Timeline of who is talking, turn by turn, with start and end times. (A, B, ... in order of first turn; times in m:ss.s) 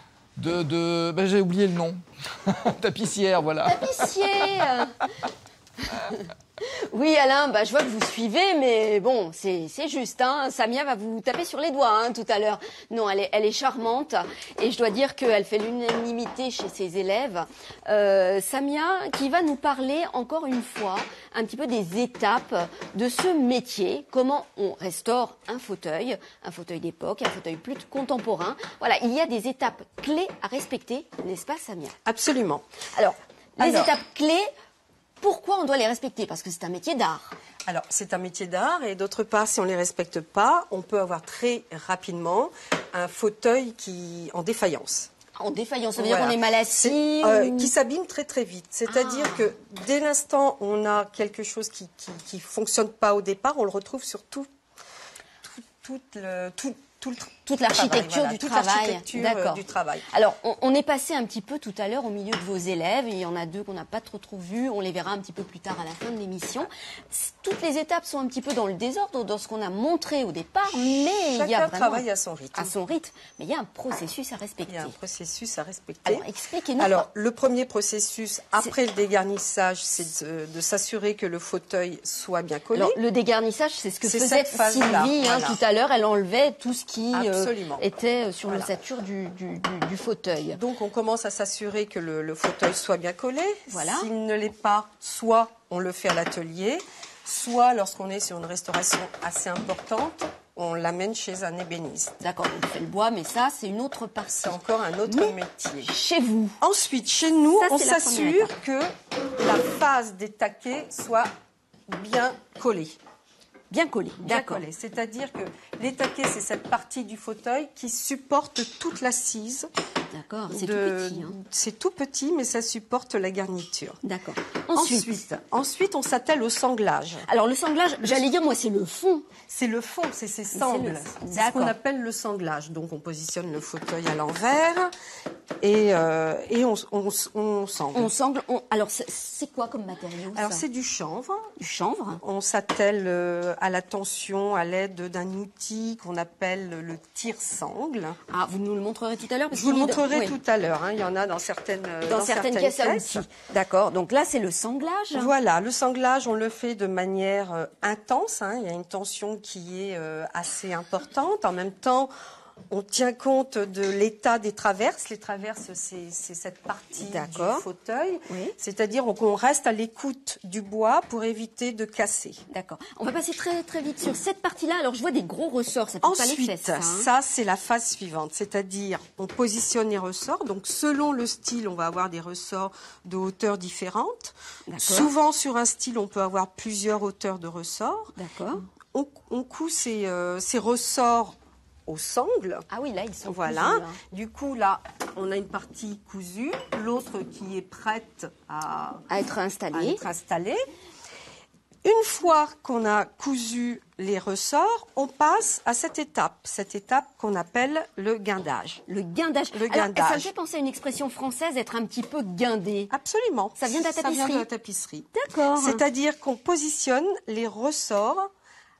0:00.4-0:04.0 A
0:03.6-0:04.9 B
0:05.9-0:31.9 B
0:32.0-0:32.6 C
0:32.9-0:34.5 B
0:33.6-0:33.9 C
0:35.2-0:37.3 B
0:37.6-0:45.1 C
0:45.4-0:47.7 B
0:46.0-0:54.5 C
0:48.9-0:49.5 B
0:55.4-1:00.0 C
0:57.4-1:14.9 B
1:11.3-1:12.7 C
1:14.7-1:16.2 C
1:16.0-1:17.1 B
1:16.8-1:23.0 C
1:22.7-1:30.6 B
1:24.0-1:25.6 C
1:27.1-1:27.9 C
1:28.5-1:28.7 C
1:30.5-1:42.2 C
1:33.7-1:34.1 B
1:42.2-1:46.6 B
1:44.3-1:45.9 C
1:46.6-1:51.3 C
1:47.5-1:48.6 B
1:51.9-1:53.0 C
1:53.7-1:54.6 B
1:54.2-1:59.7 C
2:00.1-2:01.4 B
2:00.5-2:04.0 C
2:04.0-2:05.3 B
2:04.7-2:07.3 C
2:07.2-2:09.3 B
2:09.5-2:14.9 C
2:10.5-2:11.7 B
2:15.6-2:18.1 C
2:17.9-2:20.6 B
2:20.3-2:21.6 C
2:21.6-2:22.2 B
2:22.2-2:28.2 C
2:28.3-2:30.4 B
2:29.5-2:33.2 C
2:32.0-2:35.3 B
2:35.1-2:42.1 C
2:42.7-2:52.4 C
2:47.0-2:47.6 B
2:48.3-2:48.5 B
2:52.5-2:57.1 B
2:56.0-3:08.1 C
3:04.7-3:05.1 B
3:08.2-3:08.6 B
3:08.9-3:11.3 C
3:11.8-3:12.6 C
3:12.7-3:14.0 B
3:13.2-3:19.0 C
3:19.1-3:20.0 B
3:19.7-3:20.6 C
3:21.8-3:28.8 C
3:28.9-3:32.9 B
3:29.5-3:30.3 C
3:32.9-3:38.3 C
3:33.6-3:34.5 B
3:35.1-3:35.8 B